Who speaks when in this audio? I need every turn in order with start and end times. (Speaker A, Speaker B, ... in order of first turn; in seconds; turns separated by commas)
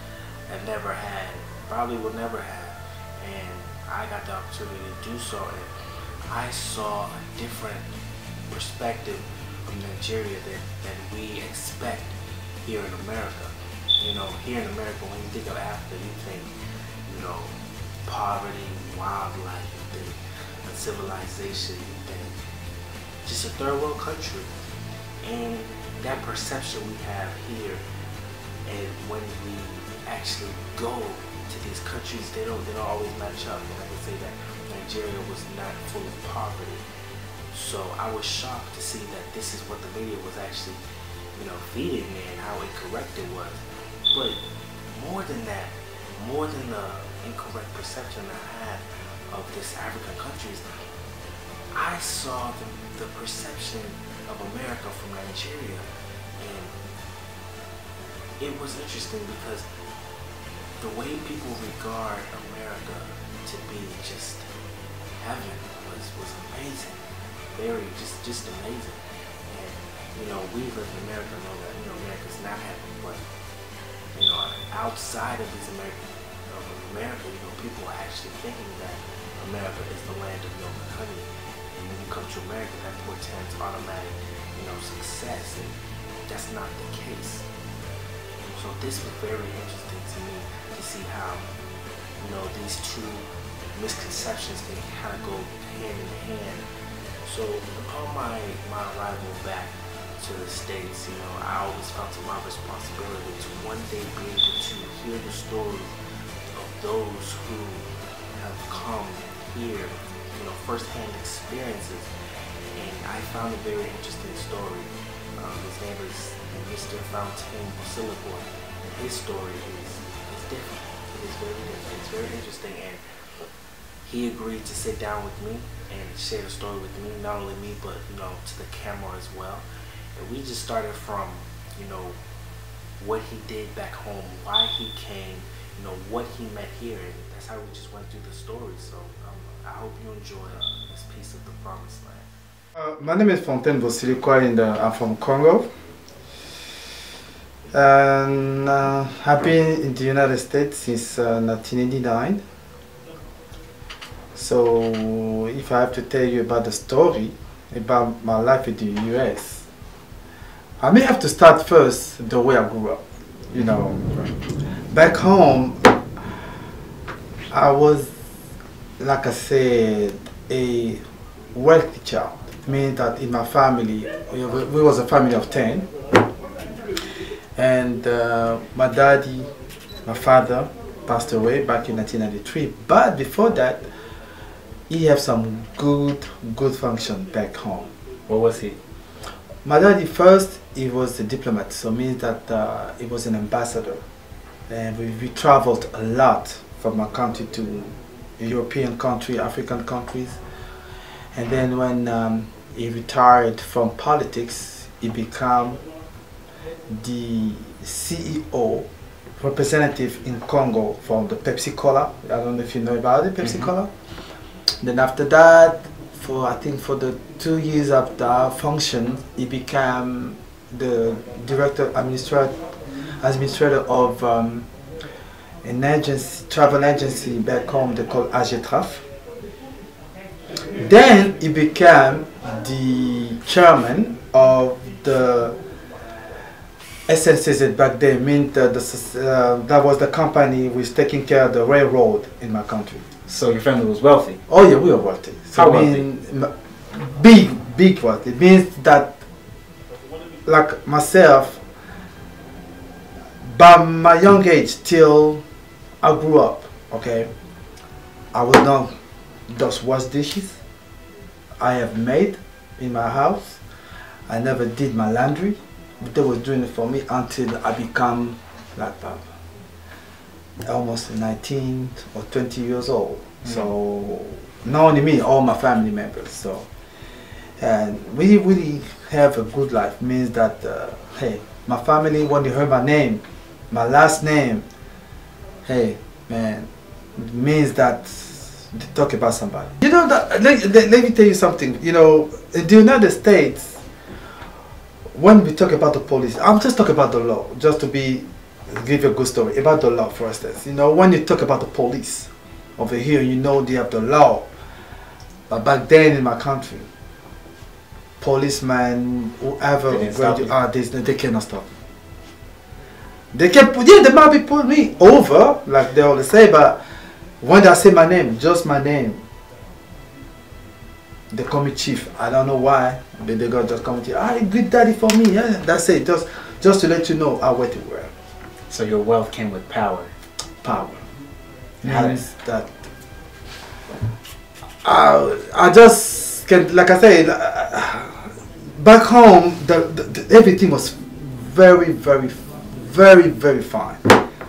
Speaker A: 0.5-5.7, Speaker A: 6.2-7.9, Speaker A: 8.5-16.5, Speaker A: 17.0-22.3, Speaker A: 23.2-24.5, Speaker A: 25.2-27.8, Speaker A: 28.7-36.8, Speaker A: 37.5-40.8, Speaker A: 41.3-50.6, Speaker A: 51.7-55.9, Speaker A: 56.4-56.8, Speaker A: 58.4-59.6, Speaker A: 60.8-64.5, Speaker A: 65.2-73.2, Speaker A: 74.1-85.8, Speaker A: 86.3-87.5, Speaker A: 88.4-91.5, Speaker A: 92.2-96.7, Speaker A: 97.2-105.9, Speaker A: 106.5-112.1, Speaker A: 112.7-123.0, Speaker A: 124.0-132.2, Speaker A: 133.0-142.3, Speaker B: 142.8-145.7, Speaker B: 147.7-152.4, Speaker B: 154.3-159.7, Speaker B: 160.8-166.2, Speaker B: 167.5-168.1, Speaker B: 169.0-175.9, Speaker B: 177.6-179.5, Speaker B: 180.1-183.9, Speaker B: 184.9-187.9, Speaker C: 188.3-188.8, Speaker B: 189.6-194.0, Speaker B: 194.7-200.4, Speaker B: 201.3-205.8, Speaker B: 206.9-213.9, Speaker C: 213.4-213.7, Speaker B: 214.8-222.5, Speaker B: 223.2-224.7, Speaker B: 225.6-229.0, Speaker B: 230.5-235.6, Speaker B: 237.1-243.0, Speaker C: 243.2-244.4, Speaker B: 244.5-249.2, Speaker C: 245.5-246.1, Speaker B: 250.4-251.6, Speaker B: 253.4-255.4, Speaker B: 256.0-257.3, Speaker B: 258.3-259.0, Speaker B: 259.5-260.6, Speaker B: 261.6-263.6, Speaker B: 264.3-269.3, Speaker B: 270.6-276.7, Speaker B: 277.6-284.6, Speaker B: 285.6-293.8, Speaker B: 295.1-304.5, Speaker B: 305.5-306.9, Speaker B: 308.2-311.7, Speaker C: 309.9-310.6, Speaker B: 313.3-316.8, Speaker B: 317.4-319.2, Speaker B: 321.3-328.1, Speaker C: 328.7-330.1, Speaker B: 330.6-331.0, Speaker C: 331.8-332.2, Speaker B: 331.8-332.8, Speaker B: 334.8-344.2